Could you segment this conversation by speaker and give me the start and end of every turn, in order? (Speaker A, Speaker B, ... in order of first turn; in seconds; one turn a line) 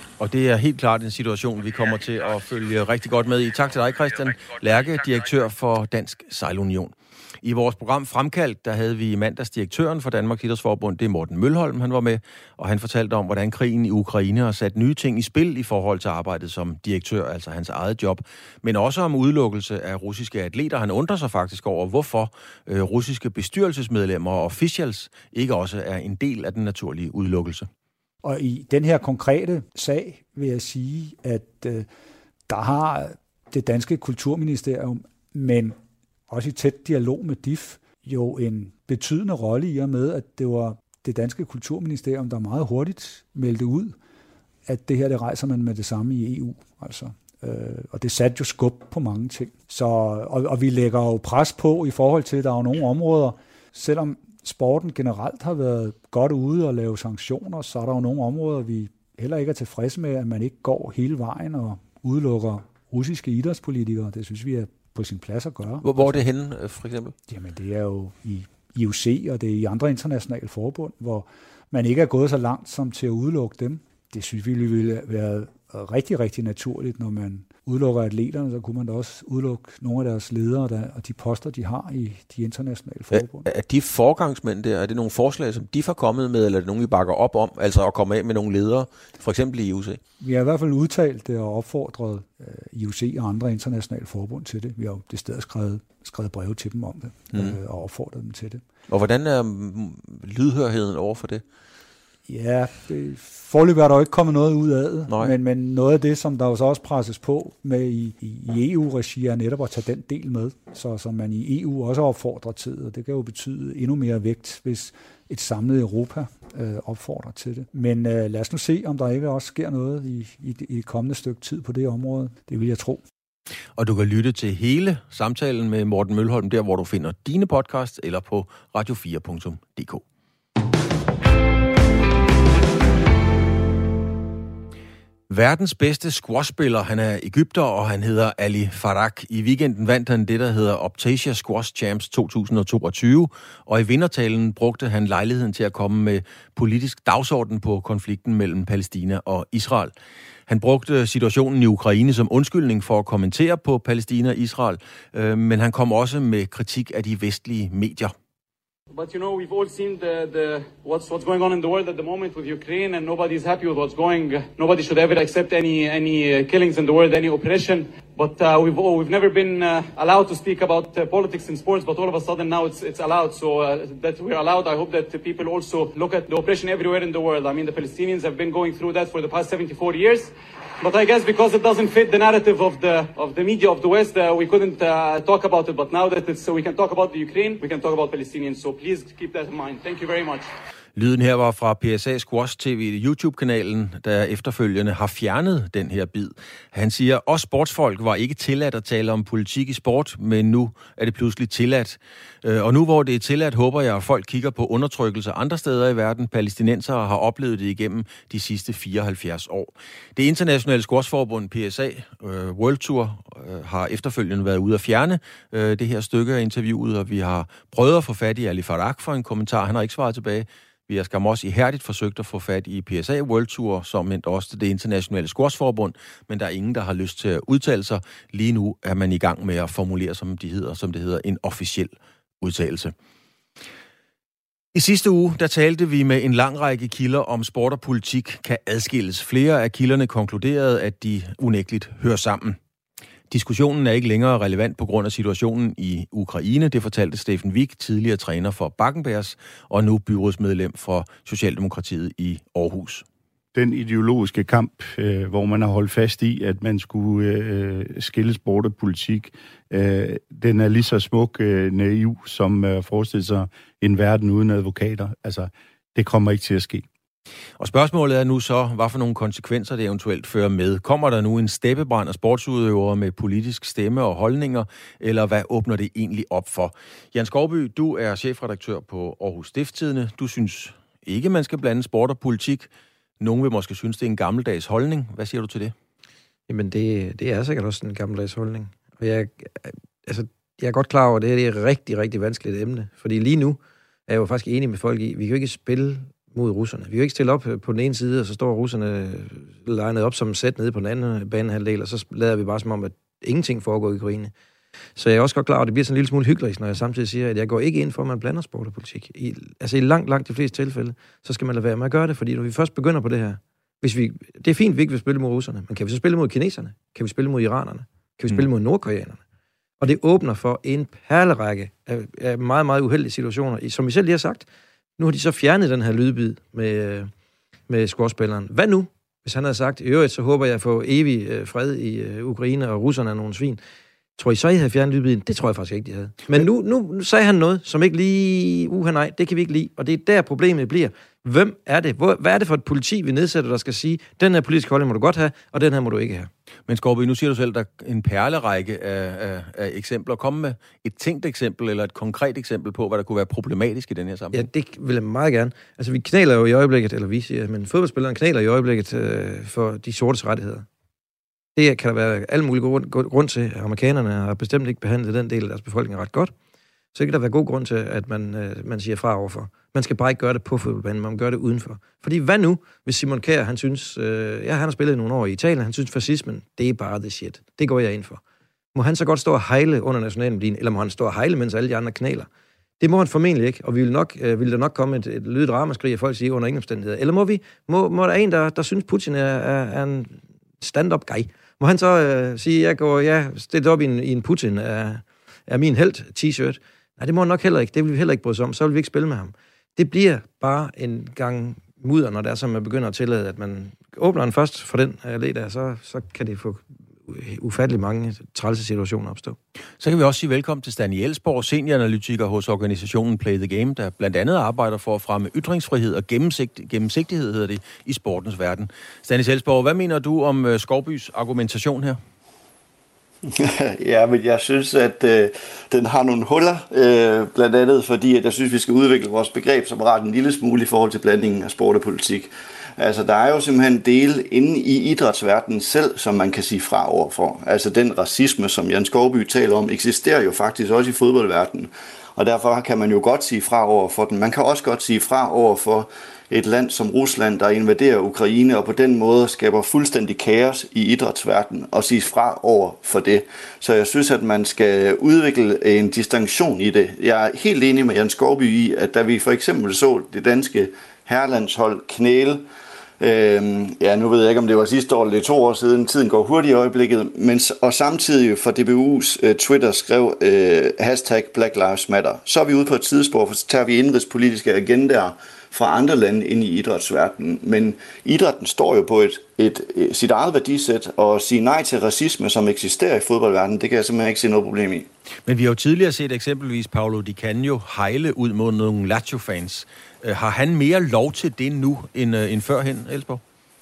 Speaker A: 0.2-27.7
Speaker B: 28.2-31.9
Speaker B: 32.5-35.8
Speaker B: 36.3-44.0
Speaker B: 44.6-66.2
Speaker A: 65.8-67.1
Speaker B: 67.3-83.5
Speaker A: 83.1-90.0
Speaker B: 90.2-98.6
Speaker A: 97.3-97.6
Speaker A: 98.9-101.4
Speaker B: 102.3-123.0
Speaker A: 105.1-105.3
Speaker A: 123.8-130.0
Speaker A: 135.3-149.9
Speaker A: 150.5-158.1
Speaker C: 158.9-190.5
Speaker A: 190.9-232.9
Speaker A: 234.7-242.6
Speaker A: 243.3-253.1
Speaker D: 253.5-266.9
Speaker A: 267.6-285.7
Speaker E: 286.5-304.3
Speaker E: 304.9-319.2
Speaker E: 319.8-327.1
Speaker E: 327.7-333.6
Speaker E: 334.2-346.3
Speaker A: 346.7-354.4
Speaker E: 354.3-360.7
Speaker E: 361.6-366.3
Speaker E: 366.9-378.2
Speaker E: 378.7-382.3
Speaker E: 382.8-409.4
Speaker A: 409.8-422.0
Speaker F: 423.2-462.4
Speaker F: 463.0-484.9
Speaker A: 485.3-493.2